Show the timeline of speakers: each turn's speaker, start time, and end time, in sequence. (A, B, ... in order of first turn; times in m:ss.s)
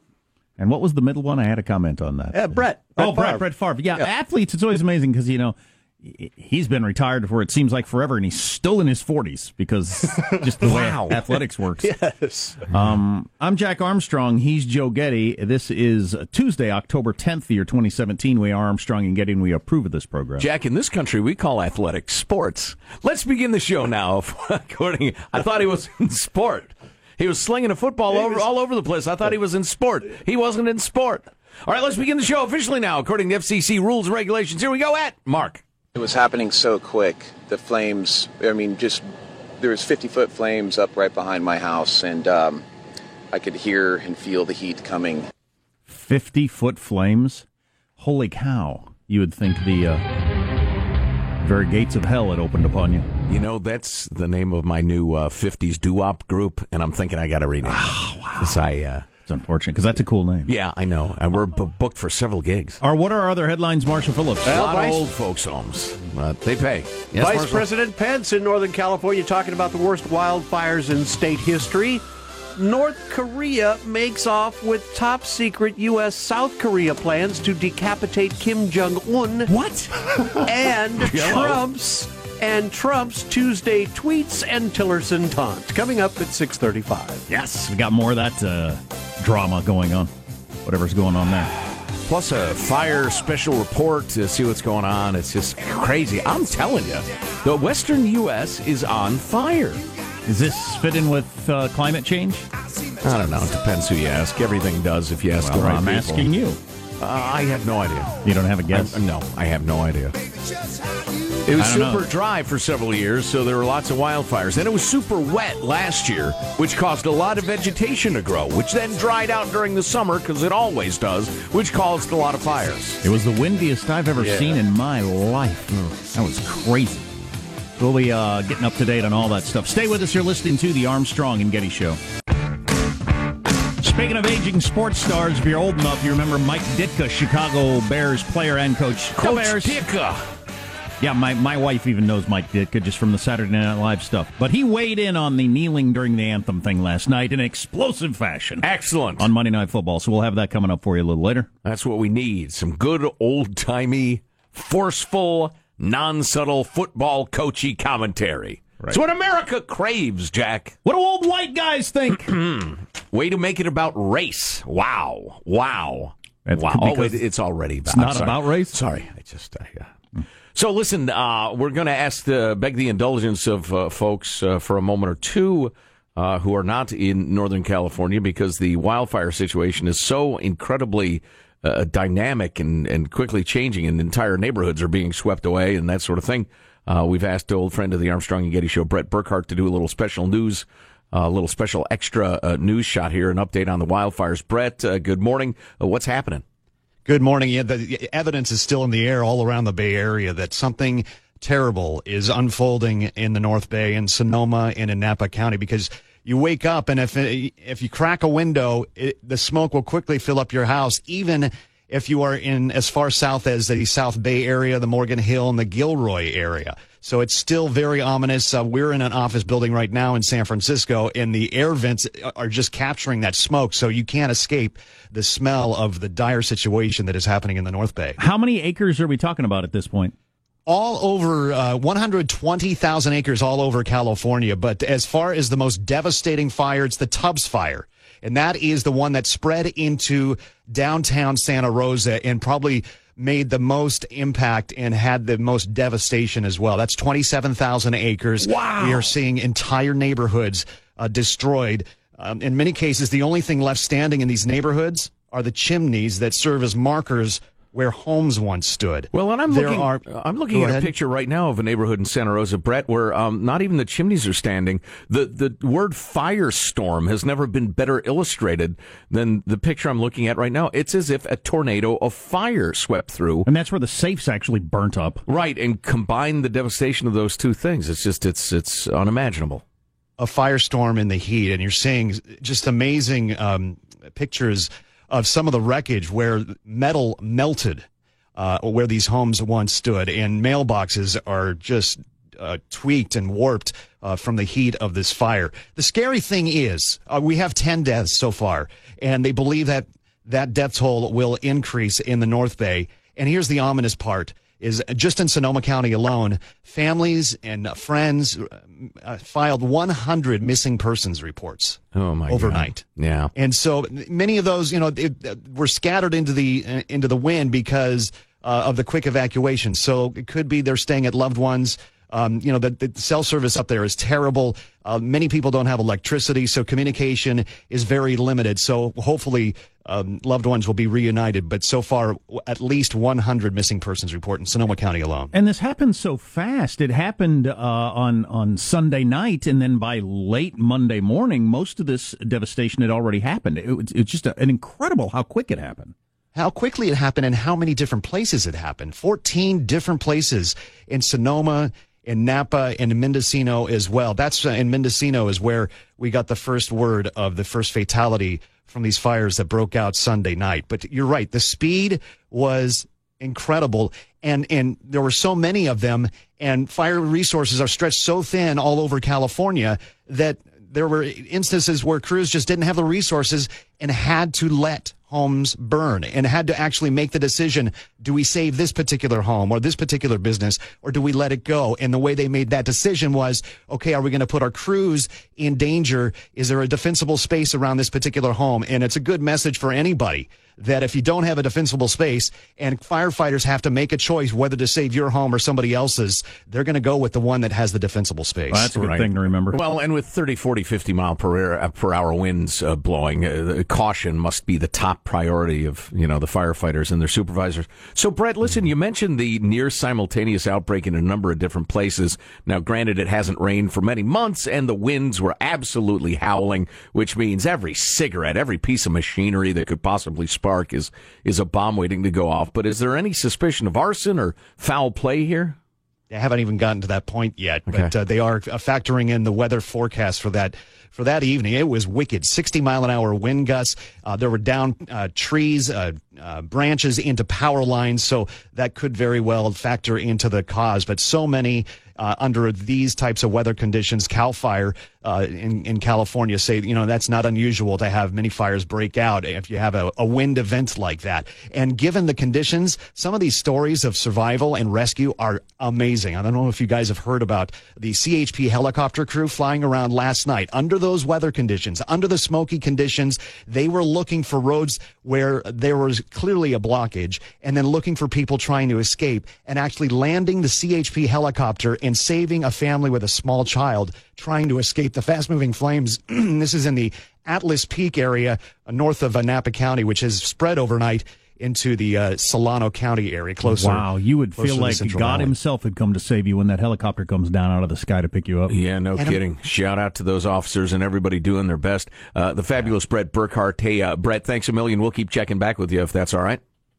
0:00.6-0:11.9 A
0:02.3-0:04.1 B
0:10.7-0:11.0 C
0:10.7-0:11.2 B
0:11.8-0:12.7 B
0:12.7-0:20.5 A
0:20.4-0:35.6 C
0:35.9-0:39.0 D
0:39.6-0:42.6 D
0:43.3-0:45.3 D
0:45.9-0:47.5 A
0:48.0-0:50.0 A
0:51.4-0:53.1 A
0:53.3-0:59.1 C
0:57.6-0:58.6 A
0:59.3-1:00.5 A
1:00.5-1:02.8 C
1:02.8-1:04.6 A
1:04.5-1:05.1 B
1:04.5-1:07.7 C
1:07.1-1:12.0 B
1:12.6-1:19.5 B
1:19.5-1:19.9 A
1:20.4-1:27.2 B
1:21.0-1:21.6 C
1:21.3-1:21.6 A
1:27.3-1:30.1 A
1:30.6-1:31.5 A
1:32.1-1:39.8 C
1:40.3-1:42.5 A
1:43.0-1:46.3 C
1:45.4-1:46.6 A
1:47.0-1:48.2 C
1:48.2-1:49.0 A
1:48.7-1:50.2 C
1:51.5-2:03.0 C
1:51.6-1:52.0 A
2:03.0-2:07.1 A
2:04.2-2:04.6 B
2:07.8-2:12.0 A
2:13.8-2:19.8 A
2:19.2-2:20.3 C
2:21.0-2:28.7 A
2:28.6-2:29.3 C
2:29.2-2:31.5 A
2:31.6-2:40.8 C
2:40.8-2:42.4 A
2:42.3-2:49.9 C
2:46.5-2:47.2 A
2:47.9-2:48.8 A
2:50.6-3:16.4 C
3:17.1-3:48.2 E
3:48.2-3:50.1 A
3:50.7-4:20.9 E
4:19.1-4:33.5 C
4:33.4-4:35.2 A
4:35.3-4:39.6 C
4:40.2-4:47.8 E
4:48.4-5:12.8 E
5:12.0-5:13.3 C
5:13.4-5:35.3 E
5:35.3-5:45.9 A
5:46.4-6:38.7 E
6:38.5-6:39.6 A
6:38.8-7:05.6 C
7:06.1-8:05.3 E
8:03.5-8:08.5 A
8:08.5-8:16.4 C